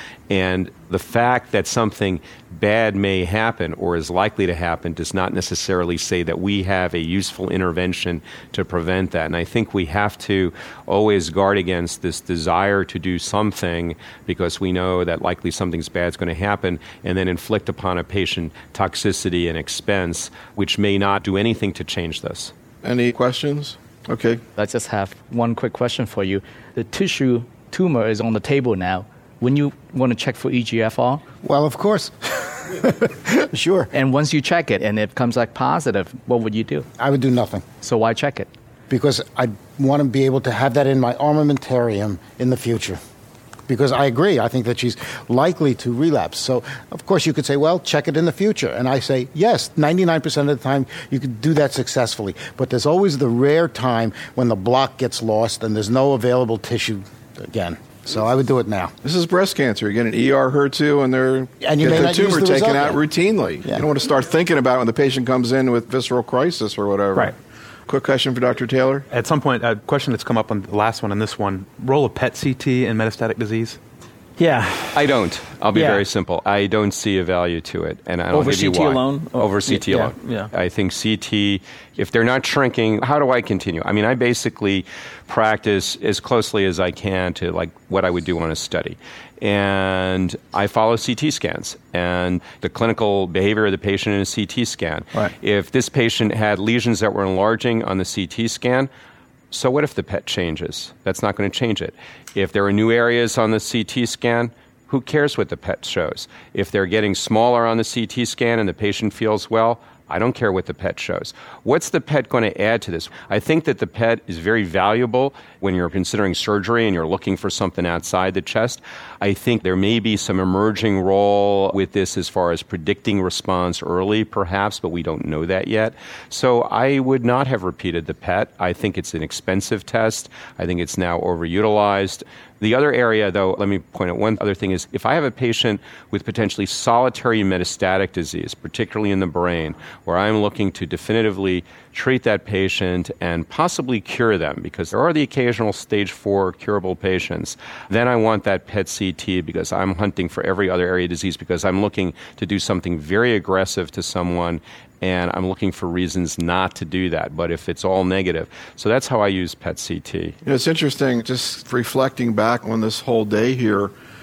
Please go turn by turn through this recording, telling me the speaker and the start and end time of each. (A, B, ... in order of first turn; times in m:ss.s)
0:00.3-0:22.5 A
0:22.8-0:24.4 B
0:24.6-0:31.2 C
0:31.4-0:33.9 D
0:33.9-0:36.9 C
0:37.0-0:37.7 D
0:37.8-0:38.5 C
0:38.9-0:43.0 D
0:43.7-0:58.9 D
0:59.0-1:07.3 B
1:01.6-1:03.0 D
1:07.9-1:09.1 B
1:09.1-1:13.8 E
1:14.4-1:15.1 F
1:14.9-1:38.9 A
1:15.7-1:16.0 F
1:18.3-1:20.5 F
1:39.5-2:40.4 A
2:40.4-2:43.9 B